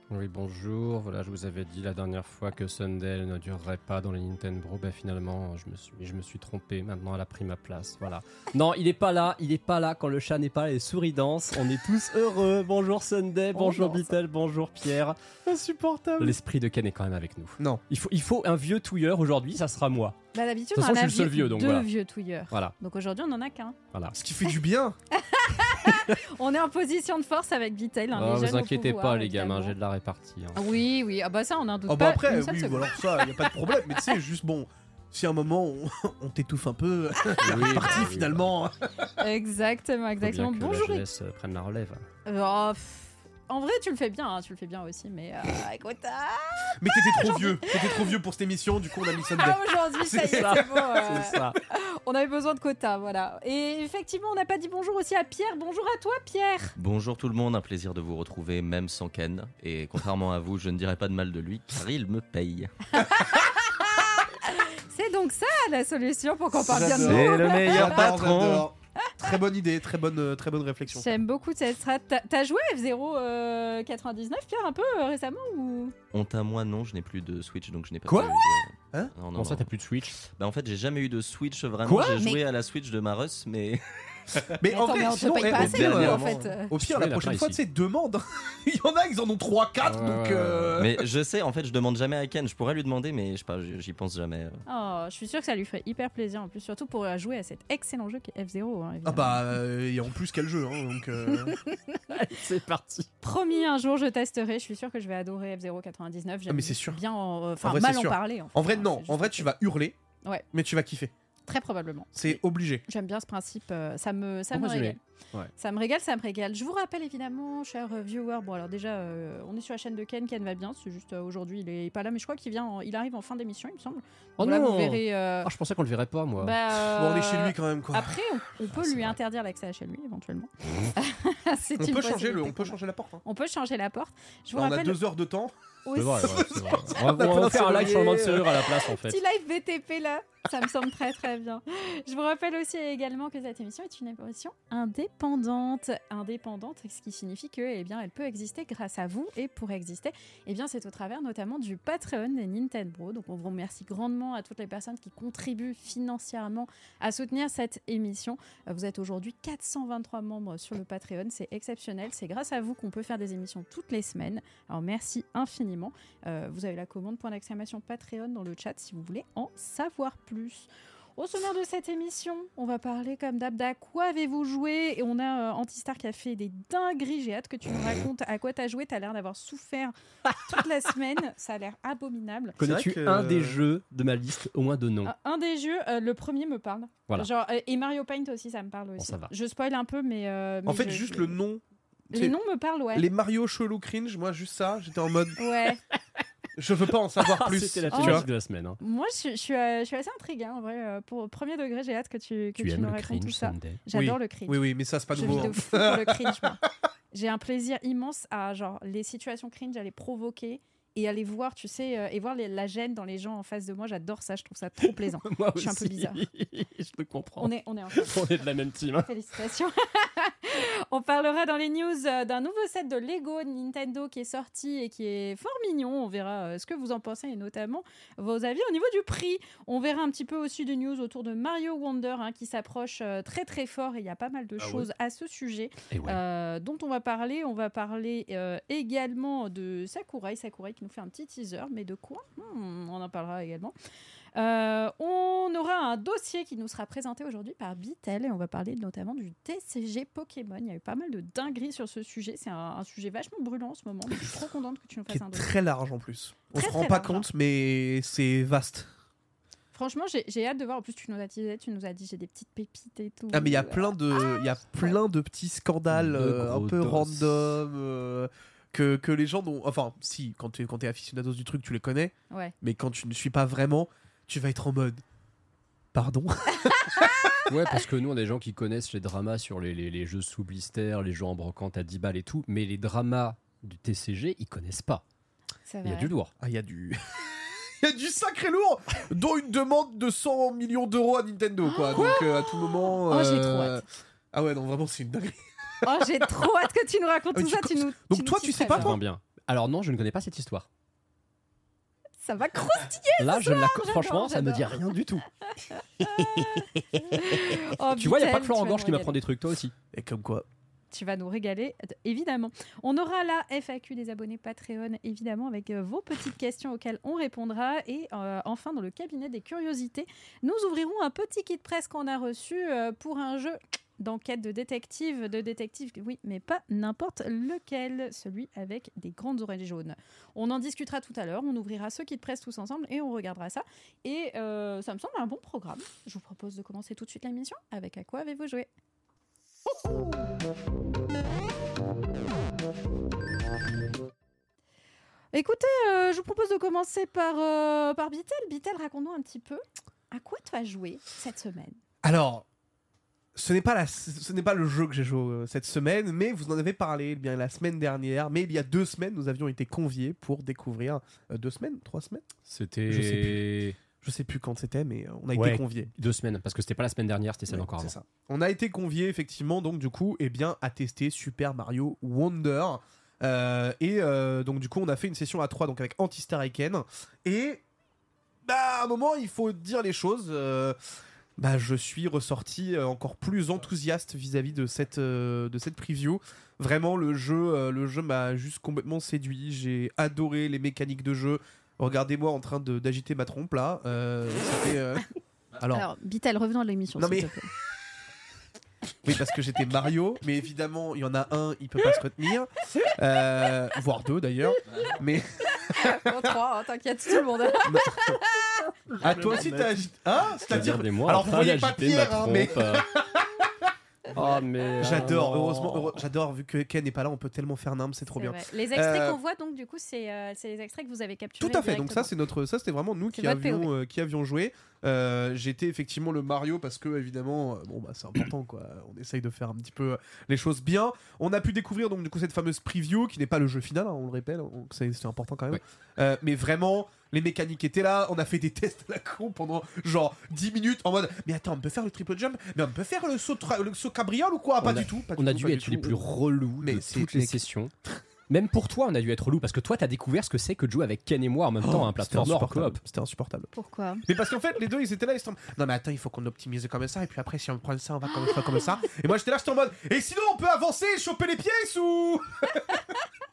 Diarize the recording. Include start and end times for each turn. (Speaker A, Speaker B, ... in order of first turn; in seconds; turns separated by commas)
Speaker A: 0.1-15.2, Speaker B: 13.6-13.9, Speaker B: 15.4-16.4, Speaker A: 16.2-20.2, Speaker C: 20.3-23.8, Speaker A: 20.8-21.9, Speaker B: 24.1-25.0, Speaker C: 25.1-29.8, Speaker A: 28.1-30.7, Speaker C: 30.6-33.5, Speaker B: 31.9-39.1, Speaker A: 37.4-38.5, Speaker C: 39.2-41.0, Speaker A: 40.2-42.0, Speaker C: 42.3-48.1, Speaker B: 46.8-51.3, Speaker C: 49.3-56.7, Speaker A: 50.3-51.6, Speaker D: 56.8-62.7, Speaker C: 63.0-63.8, Speaker C: 64.5-68.1, Speaker B: 66.5-71.2, Speaker D: 66.7-68.7, Speaker C: 70.9-76.0, Speaker D: 76.1-79.7, Speaker A: 78.1-78.4, Speaker A: 79.3-80.2, Speaker D: 80.4-83.8, Speaker A: 81.8-82.2, Speaker C: 82.1-82.4, Speaker B: 84.6-91.0, Speaker C: 84.7-86.7, Speaker D: 85.4-86.5, Speaker A: 86.7-87.6, Speaker A: 89.8-90.8, Speaker D: 90.8-94.6, Speaker C: 94.7-99.4, Speaker B: 99.0-101.6, Speaker C: 101.4-102.0, Speaker A: 102.1-103.1, Speaker C: 103.2-109.5, Speaker B: 106.5-107.0, Speaker B: 107.6-110.0, Speaker B: 110.5-111.1, Speaker C: 111.5-112.4, Speaker B: 112.2-112.9, Speaker C: 112.9-115.0, Speaker A: 114.5-115.5, Speaker C: 115.6-125.5, Speaker A: 124.4-126.5, Speaker C: 126.4-135.0, Speaker B: 126.9-128.2, Speaker A: 128.7-129.2, Speaker B: 131.8-133.2, Speaker B: 134.6-135.5, Speaker C: 135.9-136.7, Speaker A: 135.9-139.2, Speaker B: 136.2-138.6, Speaker C: 138.9-182.6, Speaker A: 182.6-185.1, Speaker B: 182.6-183.6, Speaker C: 185.0-191.4, Speaker A: 189.0-189.3, Speaker B: 190.7-192.4, Speaker C: 192.1-193.1, Speaker B: 192.9-195.4, Speaker C: 195.4-195.8, Speaker B: 196.6-198.3, Speaker A: 197.2-198.8, Speaker C: 197.9-198.3, Speaker C: 198.8-206.6, Speaker A: 202.6-203.8, Speaker B: 203.9-206.5, Speaker A: 205.2-205.5, Speaker C: 207.1-216.2, Speaker A: 214.8-219.1, Speaker C: 217.4-218.2, Speaker C: 219.1-243.7, Speaker A: 235.9-236.2, Speaker C: 244.4-255.5, Speaker B: 255.1-258.9, Speaker C: 256.5-257.3, Speaker C: 259.7-264.9, Speaker B: 263.3-275.0, Speaker A: 265.9-267.4, Speaker B: 275.9-277.2, Speaker A: 277.5-285.0, Speaker C: 285.7-286.1, Speaker A: 285.8-286.3, Speaker B: 286.4-287.3, Speaker B: 287.8-296.3, Speaker C: 291.6-293.8, Speaker C: 295.8-299.0, Speaker B: 297.3-299.0, Speaker A: 298.7-300.7, Speaker C: 302.2-304.9, Speaker A: 303.2-305.2, Speaker C: 305.8-309.2, Speaker A: 306.0-307.0, Speaker A: 307.9-309.7, Speaker B: 309.9-310.5, Speaker C: 310.9-338.7, Speaker C: 345.3-351.8, Speaker B: 352.0-352.5, Speaker B: 353.4-362.2, Speaker A: 362.5-363.8, Speaker B: 362.9-363.4, Speaker B: 364.0-365.9, Speaker A: 365.4-367.9, Speaker B: 367.5-377.6, Speaker B: 378.4-380.8, Speaker B: 381.4-395.1, Speaker B: 395.6-395.9, Speaker C: 395.7-397.5, Speaker B: 397.0-397.3, Speaker B: 399.1-406.3, Speaker C: 405.7-408.6, Speaker B: 407.6-408.2, Speaker B: 409.0-413.3, Speaker A: 409.0-409.6, Speaker A: 410.4-412.9, Speaker A: 414.1-416.0, Speaker B: 414.8-419.2, Speaker C: 418.1-422.1, Speaker B: 421.4-446.1, Speaker C: 423.1-423.7, Speaker A: 444.6-447.7, Speaker B: 446.6-448.0, Speaker A: 448.3-452.8, Speaker B: 451.6-453.5, Speaker C: 453.5-454.0, Speaker B: 454.1-462.8